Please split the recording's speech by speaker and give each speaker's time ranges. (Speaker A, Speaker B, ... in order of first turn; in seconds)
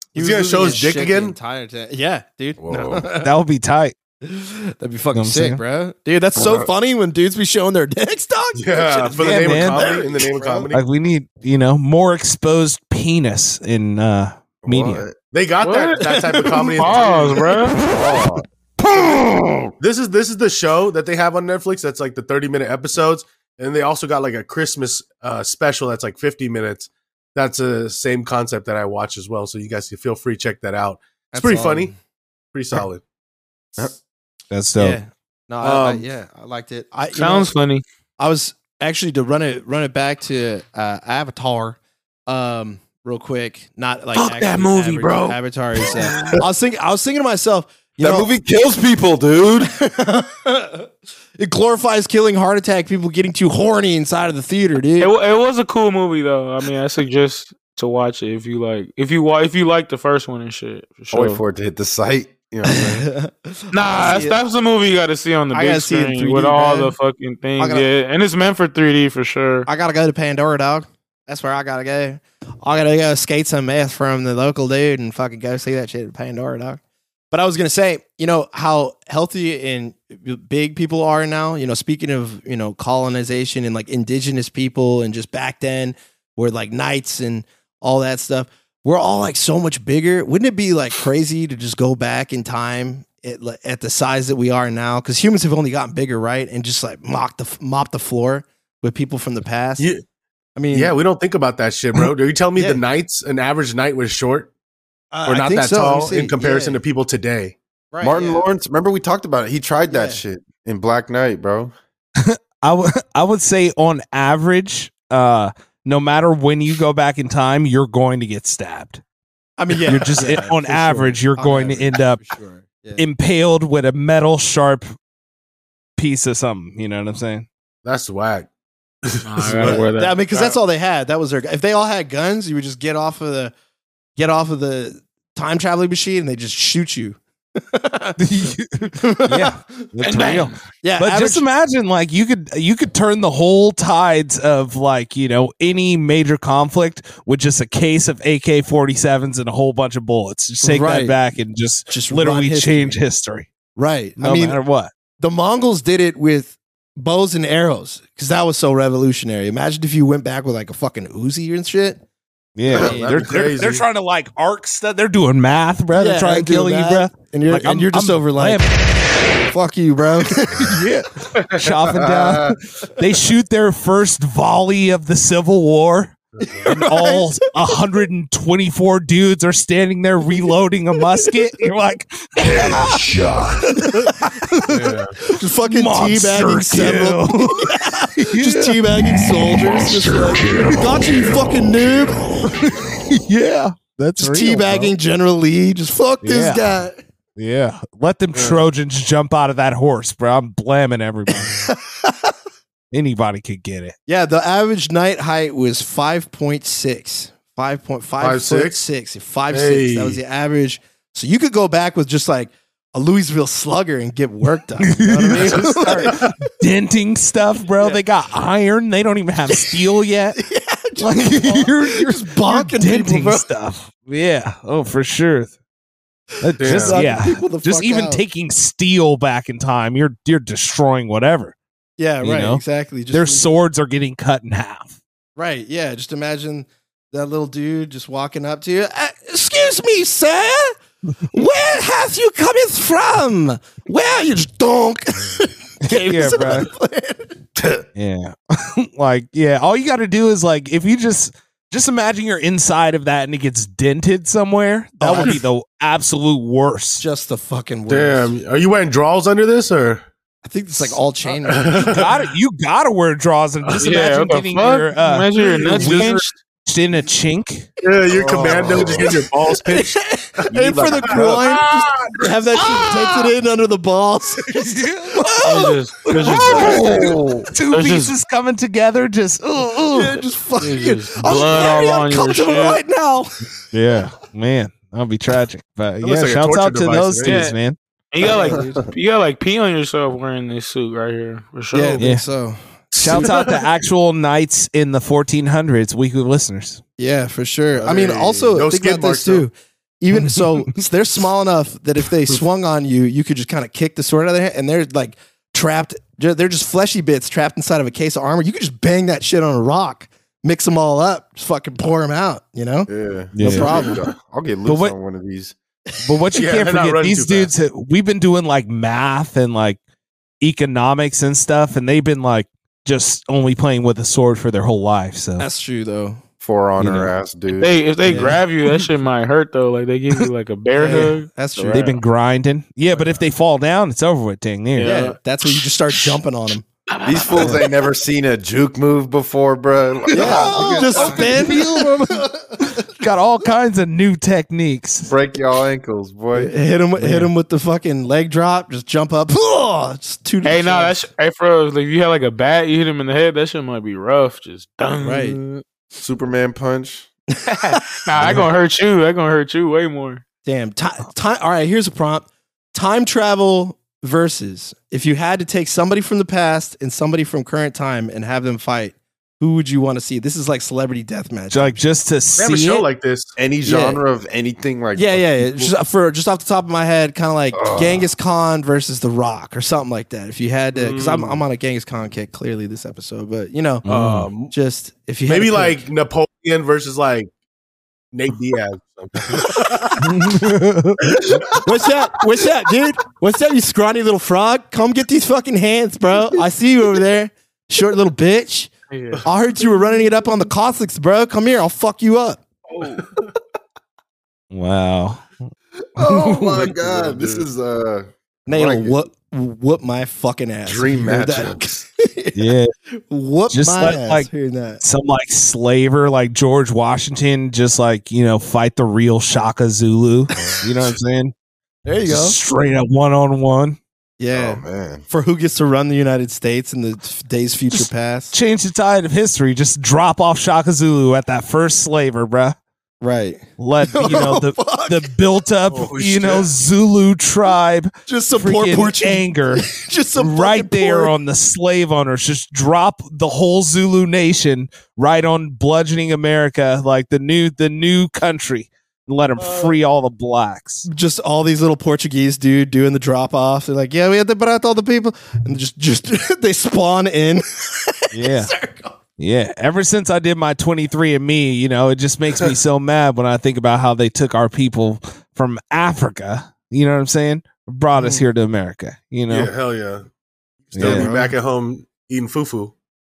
Speaker A: 0.1-3.3, 4.2-10.7, 16.0-16.8, 31.3-32.0, 34.8-37.5, 38.2-48.3, 49.8-50.9, 51.4-55.1, 62.6-64.3, 65.5-66.9, 67.6-67.9, 69.7-76.8, 77.3-99.9, 100.5-100.9, 105.1-106.8, 107.9-108.5, 109.9-110.2, 119.6-123.0, 129.6-133.5, 134.2-139.9, 140.8-141.4, 150.6-151.2, 151.9-153.0, 153.8-154.6, 155.2-162.0, 162.7-163.3, 165.9-170.8, 176.4-177.5, 181.0-181.3, 182.5-182.9, 183.6-184.4, 185.2-192.3, 194.2-197.0, 201.3-202.3, 204.1-216.5, 220.4-223.5, 226.6-228.2, 232.0-233.5, 235.3-240.7, 241.3-247.3, 255.0-255.4, 257.0-258.3, 260.4-262.0, 269.6-275.8, 276.3-276.9, 279.9-283.4, 288.2-288.8, 291.7-292.6, 297.0-314.0, 325.4-326.2, 328.1-328.4, 330.8-331.9, 334.8-336.6, 340.1-342.9, 346.3-350.9, 355.0-355.4, 360.4-371.8, 373.6-374.0, 374.9-383.9, 384.5-385.8, 391.5-398.7, 399.2-402.4, 408.5-414.8, 421.9-422.4, 424.2-428.3, 433.0-435.1, 438.1-441.1, 449.4-449.6, 450.8-458.9, 468.0-468.2, 470.8-471.3
Speaker B: 0.1-1.4, 8.6-10.8, 15.3-17.6, 19.8-31.9, 32.5-33.0, 35.6-36.0, 99.8-100.0, 100.7-104.5, 105.3-107.5, 127.8-128.5, 129.0-129.8, 162.7-163.8, 184.7-185.2, 198.3-198.6, 208.2-208.8, 209.5-210.2, 215.4-216.3, 226.6-227.0, 257.9-260.1, 260.8-262.2, 263.6-263.9, 265.6-266.0, 267.8-269.9, 271.1-272.2, 286.0-287.4, 292.9-293.6, 297.8-299.4, 316.3-317.5, 372.4-373.3, 380.7-381.4, 383.9-384.5, 385.3-387.3, 388.1-390.3, 391.2-391.6, 402.8-403.2, 406.5-407.4, 435.7-436.5, 469.3-470.1, 470.7-472.7
Speaker C: 2.6-3.1, 6.3-6.7, 14.6-15.2, 17.8-19.7, 48.0-49.7, 61.1-63.1, 108.0-111.7, 171.8-172.6, 247.6-247.8, 268.1-269.1, 270.5-271.6, 276.4-277.5, 312.9-315.5, 326.4-328.2, 337.0-341.6, 345.1-346.5, 356.0-357.1, 373.4-375.7, 377.5-378.1, 405.9-409.0, 410.6-411.7, 424.3-425.0
Speaker D: 3.2-3.9, 5.1-5.6, 9.2-9.9, 10.7-15.1, 34.5-35.0, 112.2-119.0, 119.7-122.2, 123.0-124.9, 126.0-127.5, 138.2-153.5, 154.2-154.9, 162.6-168.7, 170.6-184.9, 185.6-190.0, 192.4-194.9, 196.2-196.6, 197.3-201.7, 202.9-203.9, 214.8-220.5, 221.0-225.5, 226.4-231.5, 232.2-235.0, 245.8-246.7, 247.9-257.0, 261.8-267.7, 274.5-280.2, 283.7-287.8, 292.0-292.2, 293.0-296.8, 300.1-300.8, 313.3-313.9, 314.6-314.9, 316.0-319.8, 320.4-325.4, 326.8-327.1, 331.7-334.9, 340.2-345.1, 347.0-347.3, 371.5-372.9, 383.8-384.3, 390.0-391.4, 404.5-405.3, 412.3-412.7, 413.5-414.3, 414.8-421.3, 422.1-423.8, 427.7-432.6, 433.6-450.9, 458.1-458.5, 459.2-469.5, 470.7-471.1
Speaker E: 15.6-16.1, 16.8-17.8, 37.1-37.8, 44.1-45.4, 55.0-61.4, 63.7-69.7, 129.2-130.5, 140.0-140.6, 263.8-266.3, 275.4-276.8, 277.7-278.1, 280.6-282.8, 287.2-287.6, 288.1-292.0, 327.5-332.0, 334.8-335.9, 336.9-337.6, 350.4-355.6, 357.5-360.2, 398.9-399.2